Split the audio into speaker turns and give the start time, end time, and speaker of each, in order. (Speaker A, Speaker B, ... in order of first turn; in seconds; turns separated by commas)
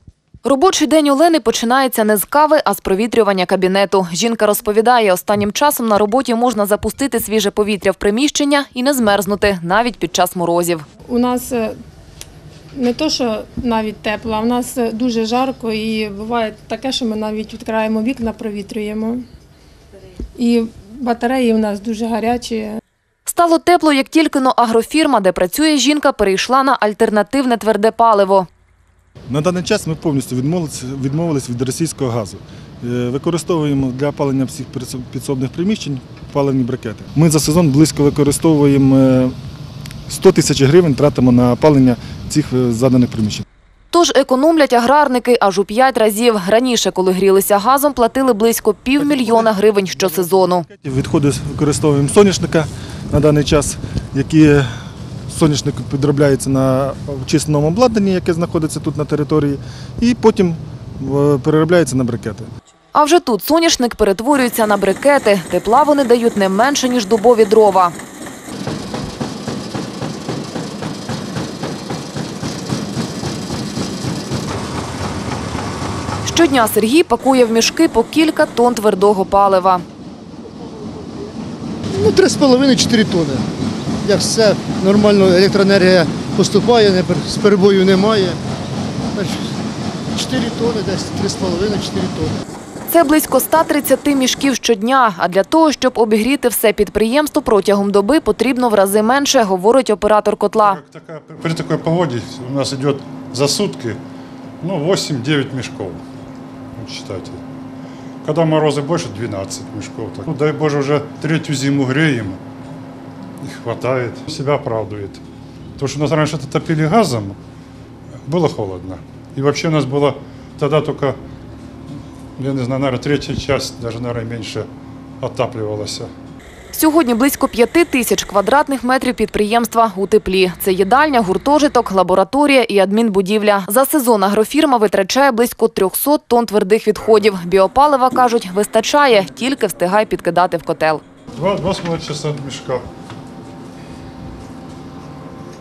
Speaker A: 0.4-10.8, Speaker B: 11.1-11.8, Speaker B: 12.7-19.2, Speaker B: 20.4-22.8, Speaker A: 23.3-28.5, Speaker C: 29.3-39.3, Speaker C: 40.1-43.4, Speaker A: 43.9-50.6, Speaker C: 49.0-54.7, Speaker C: 55.3-62.5, Speaker A: 62.9-67.9, Speaker A: 76.2-79.8, Speaker D: 81.9-83.4, Speaker D: 84.0-88.4, Speaker D: 89.1-89.4, Speaker D: 90.1-92.4, Speaker A: 92.9-100.8, Speaker E: 100.6-104.0, Speaker E: 104.6-106.0, Speaker E: 106.8-107.4, Speaker E: 108.2-112.4, Speaker E: 113.4-115.2, Speaker E: 115.8-117.4, Speaker E: 118.2-121.2, Speaker E: 122.4-124.7, Speaker E: 125.2-126.1, Speaker A: 126.7-141.0, Speaker E: 141.3-142.8